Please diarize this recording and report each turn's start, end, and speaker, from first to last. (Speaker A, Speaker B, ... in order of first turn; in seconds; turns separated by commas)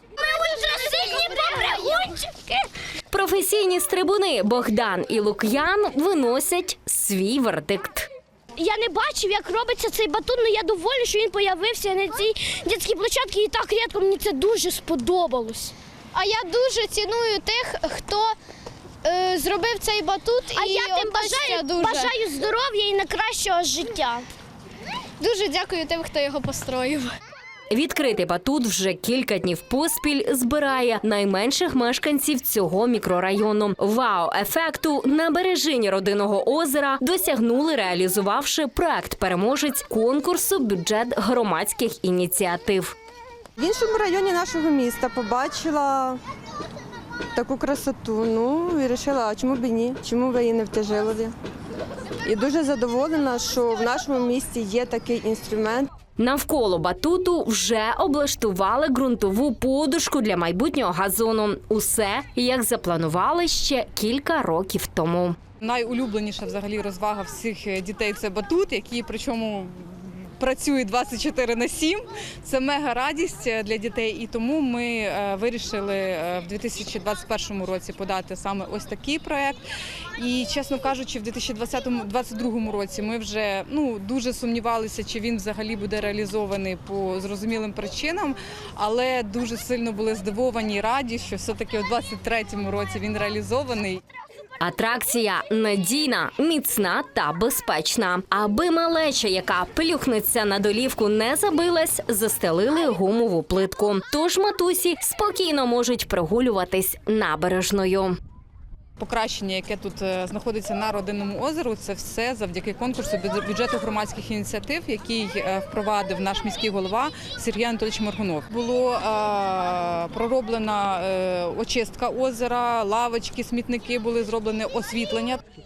Speaker A: 0.2-2.6, Speaker B: 3.1-8.1, Speaker A: 8.6-15.8, Speaker C: 16.1-18.4, Speaker C: 19.0-22.1, Speaker A: 20.6-24.3, Speaker C: 25.2-27.1, Speaker B: 27.7-43.0, Speaker D: 43.6-46.2, Speaker D: 47.3-51.3, Speaker D: 52.2-55.9, Speaker B: 56.2-65.4, Speaker E: 65.6-79.6, Speaker E: 80.2-94.0, Speaker B: 94.6-108.2, Speaker E: 109.0-125.4